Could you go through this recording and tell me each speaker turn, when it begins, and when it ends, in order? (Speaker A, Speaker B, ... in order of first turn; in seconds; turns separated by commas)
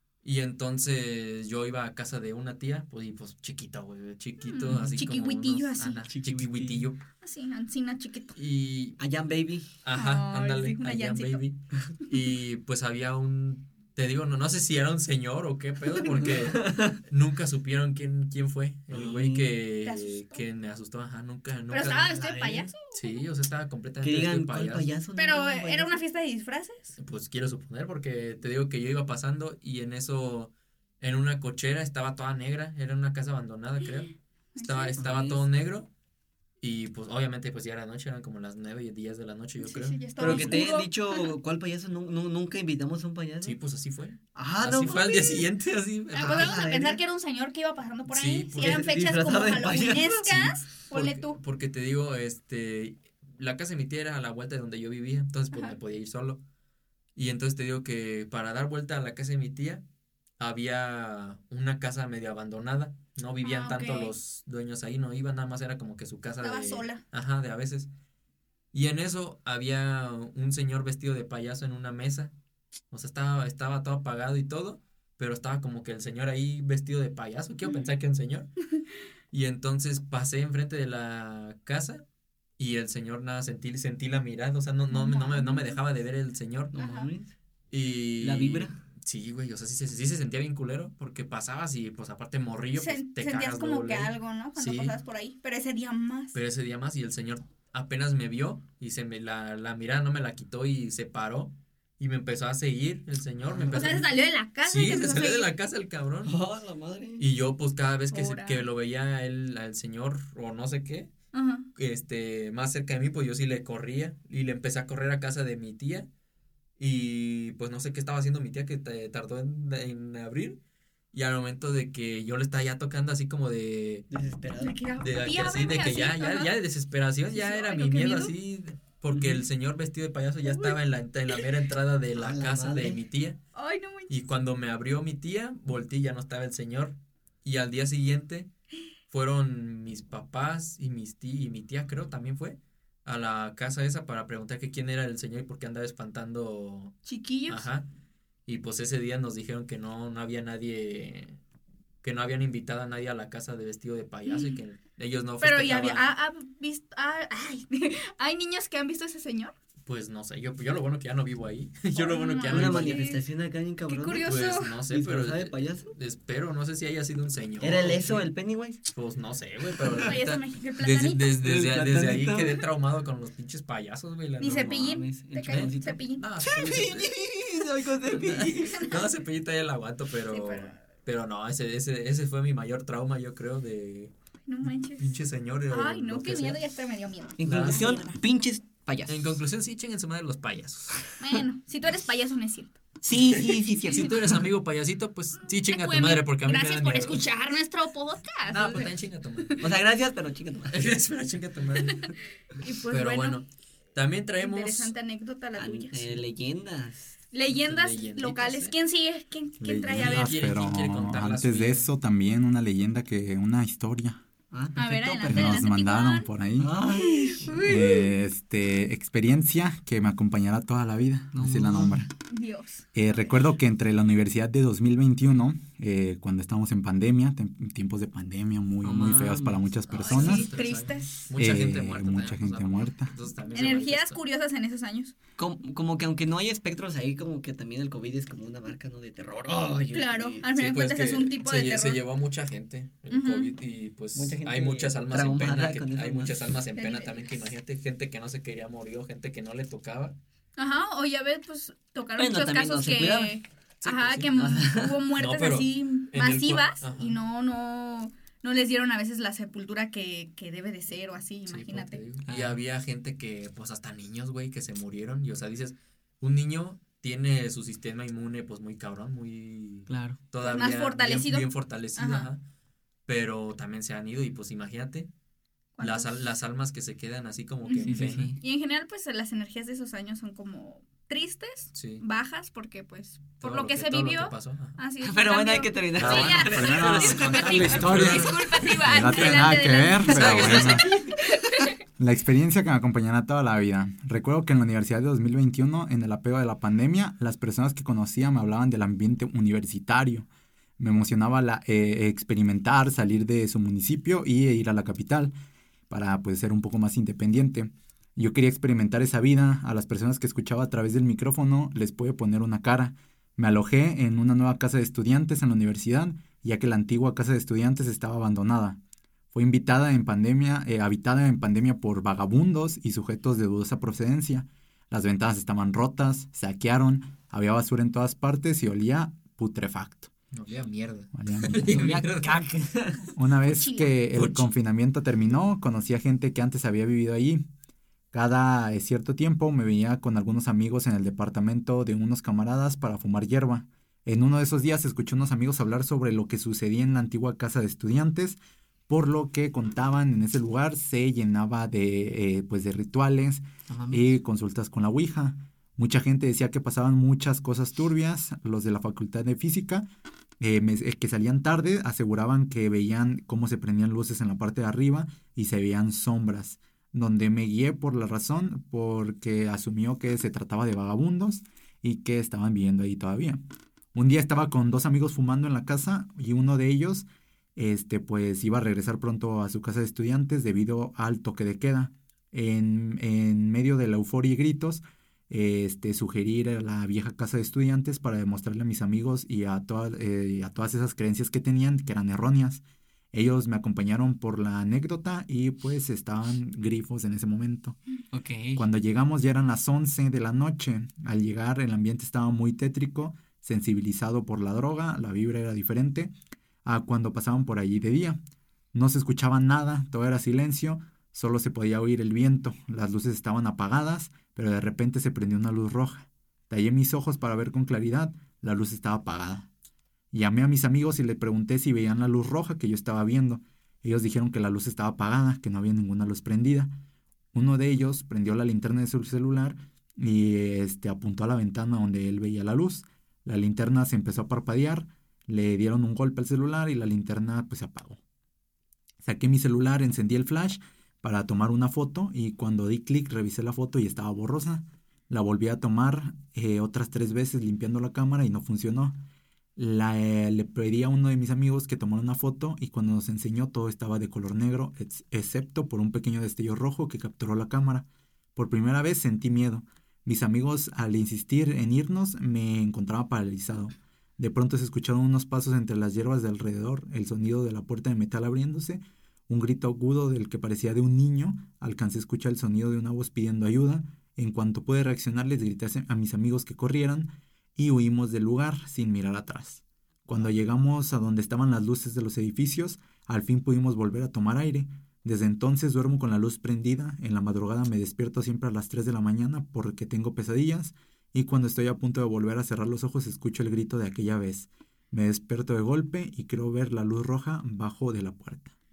Speaker A: 0.2-7.1, Speaker B: 4.4-6.1, Speaker C: 6.1-6.9, Speaker B: 7.2-8.3, Speaker A: 8.3-9.0, Speaker C: 9.0-9.7, Speaker A: 9.8-22.2, Speaker B: 9.9-11.4, Speaker C: 16.1-17.0, Speaker C: 18.9-19.5, Speaker B: 19.9-20.4, Speaker B: 21.7-23.2, Speaker C: 22.1-22.7, Speaker A: 22.8-24.9, Speaker C: 24.0-26.0, Speaker B: 25.2-27.0, Speaker A: 27.0-35.9, Speaker B: 34.5-35.0, Speaker C: 35.0-35.5, Speaker A: 36.6-40.7, Speaker B: 39.6-41.3, Speaker C: 40.2-43.6, Speaker A: 43.4-46.6, Speaker C: 44.4-45.0, Speaker B: 44.9-45.5, Speaker B: 46.1-51.4, Speaker C: 46.1-47.0, Speaker A: 48.1-48.9, Speaker C: 48.6-50.2, Speaker A: 50.0-56.4, Speaker A: 57.2-59.8, Speaker A: 60.4-67.9, Speaker B: 63.4-64.2, Speaker B: 66.4-67.0, Speaker A: 68.7-72.3, Speaker A: 72.9-78.5, Speaker A: 79.3-82.0, Speaker A: 82.6-86.8, Speaker B: 84.9-85.8, Speaker C: 86.7-87.3, Speaker B: 86.8-87.1, Speaker A: 87.7-95.0, Speaker C: 88.2-88.8, Speaker B: 92.8-96.4, Speaker A: 96.3-106.3, Speaker C: 103.4-103.8, Speaker B: 103.7-105.5, Speaker C: 106.2-107.3, Speaker A: 107.2-111.1, Speaker B: 108.1-108.6, Speaker B: 111.3-111.7, Speaker A: 111.8-116.1, Speaker A: 116.8-120.6, Speaker A: 121.1-124.1, Speaker C: 124.1-124.8, Speaker B: 124.6-126.5, Speaker A: 125.0-133.4, Speaker B: 127.3-128.3, Speaker C: 129.1-129.4, Speaker B: 130.5-130.8, Speaker C: 132.2-133.0, Speaker B: 133.6-134.1, Speaker A: 134.1-138.5, Speaker A: 139.1-147.9, Speaker B: 147.1-147.7, Speaker A: 148.5-151.4, Speaker A: 152.0-156.1, Speaker B: 154.3-154.6, Speaker B: 155.4-159.6, Speaker A: 159.9-163.1, Speaker B: 161.9-163.2, Speaker C: 162.5-164.3, Speaker B: 163.9-164.8, Speaker A: 164.2-168.3, Speaker C: 164.9-165.9, Speaker C: 167.6-168.8, Speaker A: 168.9-177.2, Speaker C: 169.8-170.1, Speaker B: 170.0-171.4, Speaker C: 171.4-172.6, Speaker B: 174.4-176.3, Speaker C: 174.5-178.9, Speaker A: 178.1-184.1, Speaker B: 178.6-179.1, Speaker B: 180.3-180.8, Speaker B: 184.5-185.2, Speaker A: 184.6-186.6, Speaker B: 185.7-188.2, Speaker C: 187.4-189.4, Speaker A: 187.4-188.0, Speaker A: 189.1-191.2, Speaker B: 191.2-192.8, Speaker C: 193.0-194.3, Speaker B: 193.9-194.1, Speaker A: 193.9-197.2, Speaker B: 195.4-198.9, Speaker A: 198.5-199.7, Speaker C: 199.6-200.8, Speaker A: 200.7-202.2, Speaker B: 201.8-203.4, Speaker A: 202.9-204.9, Speaker B: 204.4-206.1, Speaker C: 205.6-207.1, Speaker B: 207.3-210.5, Speaker A: 207.5-208.8, Speaker D: 209.6-214.2, Speaker A: 209.9-211.9, Speaker C: 214.5-215.7, Speaker B: 214.8-216.3, Speaker D: 215.3-216.7, Speaker C: 216.6-217.6, Speaker B: 216.9-218.1, Speaker D: 217.6-222.1, Speaker C: 221.3-222.1, Speaker B: 222.3-223.4, Speaker D: 222.9-230.5, Speaker C: 228.8-229.6, Speaker A: 229.9-234.2, Speaker B: 229.9-231.3, Speaker D: 231.4-233.1, Speaker B: 233.5-235.2, Speaker C: 235.4-240.4, Speaker B: 239.9-242.0, Speaker A: 240.5-250.2, Speaker B: 243.1-243.5, Speaker C: 244.2-246.4, Speaker B: 246.8-247.5, Speaker B: 250.6-262.0, Speaker C: 252.2-253.4, Speaker A: 253.8-254.3, Speaker C: 254.4-255.0, Speaker A: 255.2-257.2, Speaker A: 261.5-272.4, Speaker C: 262.2-262.6, Speaker C: 269.9-270.2, Speaker B: 270.4-272.3, Speaker A: 273.1-275.1, Speaker B: 275.8-276.2, Speaker A: 275.8-278.4, Speaker B: 277.6-291.8, Speaker C: 277.9-278.4, Speaker A: 281.7-282.0, Speaker A: 283.4-284.8, Speaker C: 285.0-287.5, Speaker A: 286.0-289.5, Speaker D: 286.0-291.0, Speaker A: 290.1-291.0, Speaker D: 292.0-300.3, Speaker D: 300.8-305.3, Speaker D: 305.9-318.8, Speaker D: 319.3-330.1, Speaker A: 330.3-332.4, Speaker D: 331.1-331.8, Speaker C: 331.7-333.1, Speaker D: 333.2-337.5, Speaker B: 333.5-333.9, Speaker A: 334.1-334.5, Speaker D: 338.1-348.4, Speaker D: 348.9-359.9, Speaker C: 353.7-354.2, Speaker D: 360.4-373.4, Speaker D: 373.9-392.6, Speaker D: 393.1-397.8, Speaker C: 398.1-398.6, Speaker D: 398.6-406.1, Speaker D: 406.6-408.2, Speaker D: 408.7-419.5, Speaker D: 420.1-426.7, Speaker D: 427.3-438.0, Speaker D: 439.0-449.0, Speaker D: 449.6-498.5